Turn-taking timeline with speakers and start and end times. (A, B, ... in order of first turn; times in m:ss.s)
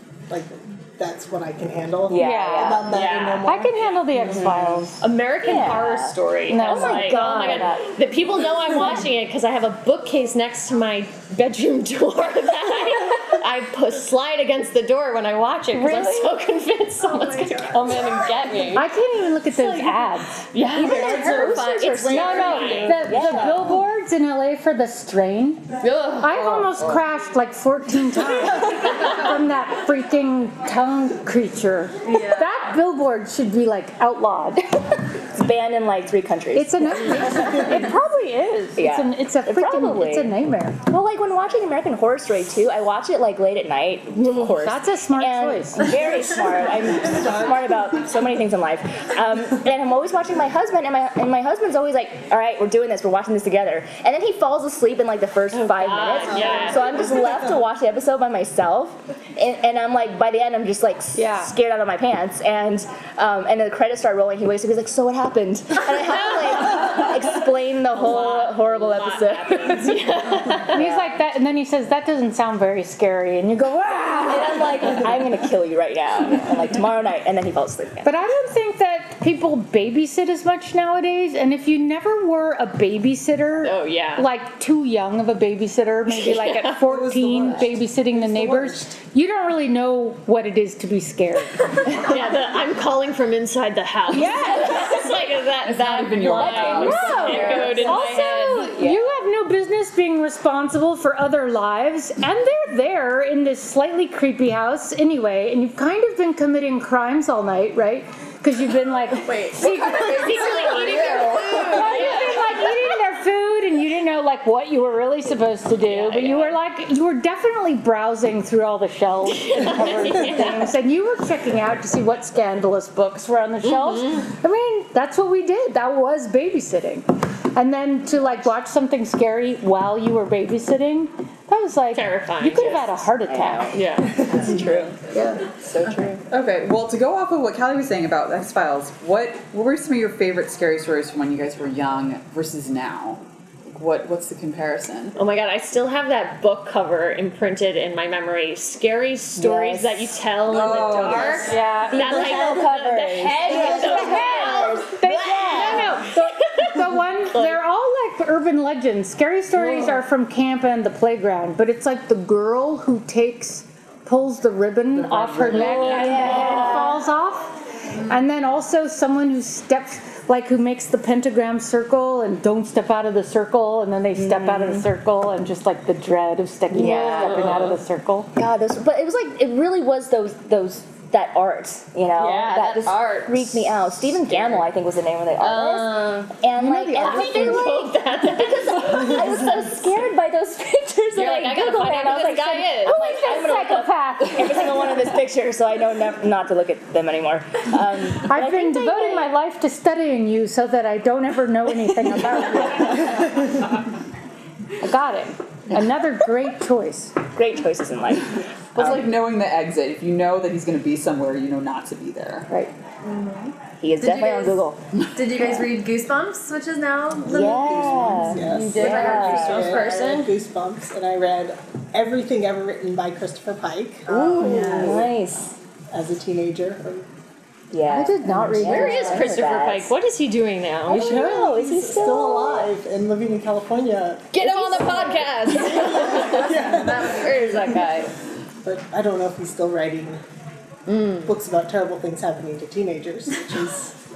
0:00.3-0:04.6 A
0:02.1-0:03.0 B
0:02.1-0:02.9 C
0:02.9-0:04.4 D
0:03.4-0:05.0 C
0:04.2-0:07.9 B
0:05.0-0:18.9 D
0:06.5-0:07.8 C
0:15.7-0:16.4 C
0:17.1-0:18.4 E
0:18.7-0:20.4 C
0:19.5-0:23.1 D
0:20.7-0:23.7 B
0:20.8-0:23.8 A
0:22.1-0:25.7 C
0:25.8-0:26.6 D
0:26.2-0:34.6 C
0:26.6-0:27.0 F
0:32.0-0:32.6 E
0:35.3-0:37.7 B
0:36.5-0:40.8 C
0:37.4-0:37.7 A
0:38.8-0:40.3 B
0:40.9-1:11.2 B
0:44.4-0:46.0 C
0:46.4-0:48.1 A
0:55.5-0:57.0 D
0:56.2-0:57.6 A
1:01.2-1:01.5 C
1:06.7-1:07.0 D
1:07.9-1:10.9 D
1:10.6-1:15.1 C
1:14.3-1:18.1 B
1:18.0-1:32.0 C
1:23.6-1:24.3 D
1:26.1-1:26.8 D
1:26.8-1:29.0 A
1:31.8-1:38.8 D
1:34.1-1:35.1 C
1:35.5-1:37.9 F
1:36.4-2:13.8 C
1:36.4-1:38.2 B
1:38.7-1:39.0 B
1:49.2-1:50.9 E
1:49.6-1:52.6 D
1:55.9-1:56.2 B
1:56.1-1:56.5 D
1:59.3-2:00.7 D
2:03.6-2:04.3 D
2:11.9-2:13.0 D
2:13.3-2:15.0 B
2:13.7-2:14.2 D
2:15.1-2:15.5 C
2:15.6-2:16.2 B
2:16.3-2:25.2 F
2:25.2-2:37.6 D
2:29.4-2:29.9 B
2:29.4-2:30.0 C
2:30.4-2:31.8 F
2:31.1-2:36.0 B
2:31.2-2:32.6 C
2:33.4-2:58.3 C
2:39.6-2:40.0 D
2:45.0-2:46.1 A
2:45.4-2:46.9 D
2:45.6-2:46.9 B
2:54.2-2:54.9 B
2:56.8-2:57.7 B
2:56.8-2:57.8 D
2:58.4-3:19.3 B
3:02.2-3:04.7 D
3:05.4-3:06.3 D
3:06.6-3:07.9 C
3:07.0-3:10.0 D
3:11.2-3:13.0 D
3:12.0-3:15.1 C
3:18.2-3:23.3 C
3:24.8-3:27.2 C
3:27.4-3:29.0 B
3:28.8-3:32.5 F
3:33.0-3:34.6 E
3:33.8-3:34.8 B
3:35.0-3:35.3 F
3:35.1-3:40.2 E
3:37.2-3:44.6 A
3:37.3-3:39.6 B
3:38.4-3:39.2 C
3:38.7-3:40.3 D
3:44.1-3:45.1 E
3:44.1-3:45.5 B
3:44.1-3:45.0 D
3:45.9-3:47.1 A
3:47.7-3:49.9 B
3:47.8-3:49.4 C
3:48.6-3:51.3 D
3:50.9-3:52.7 B
3:50.9-3:55.2 A
3:54.3-3:58.1 D
3:54.4-3:55.2 B
3:55.8-3:57.9 E
3:56.1-3:57.4 A
3:57.6-3:58.1 B
3:58.6-4:00.2 A
4:00.9-4:01.3 D
4:01.2-4:03.9 A